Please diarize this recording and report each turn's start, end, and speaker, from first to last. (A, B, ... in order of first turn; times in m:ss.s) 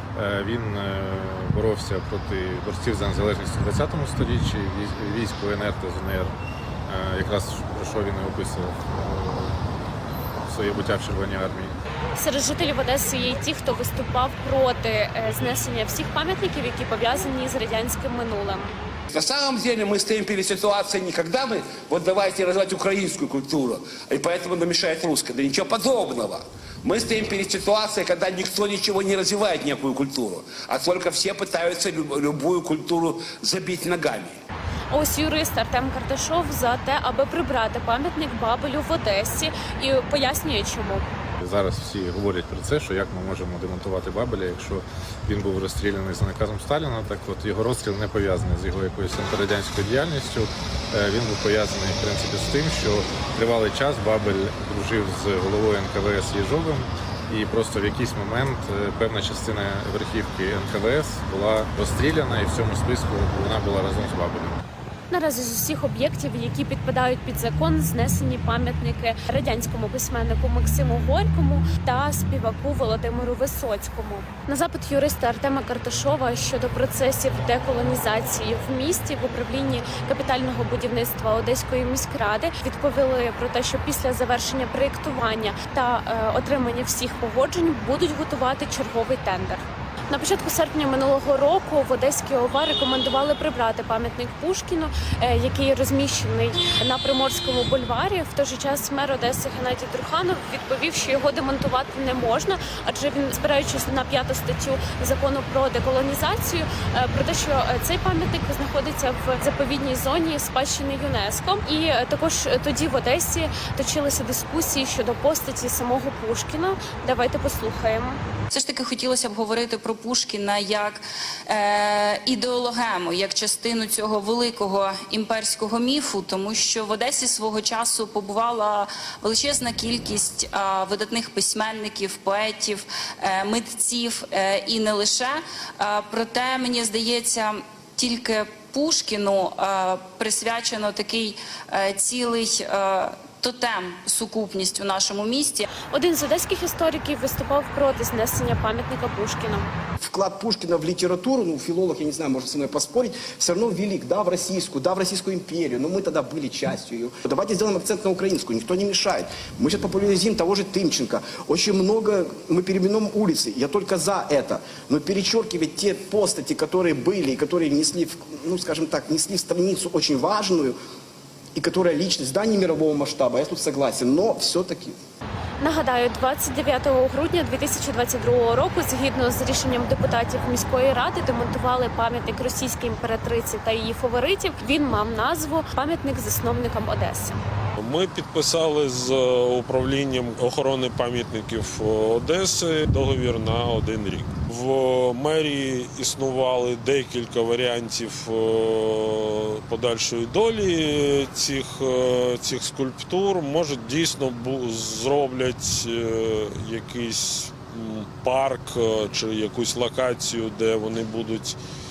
0:00.2-0:06.3 A
0:06.9-0:09.6 A
0:10.5-0:11.7 A
0:12.2-0:18.7 B
0:19.1-0:34.4 C
0:34.9-0:41.1 B
0:41.4-1:04.6 A
1:05.1-1:58.2 B
1:58.5-2:25.7 D
2:25.9-2:29.7 B
2:30.0-2:50.8 E
2:51.6-2:55.0 E
2:55.6-3:07.4 B
3:07.8-3:31.6 F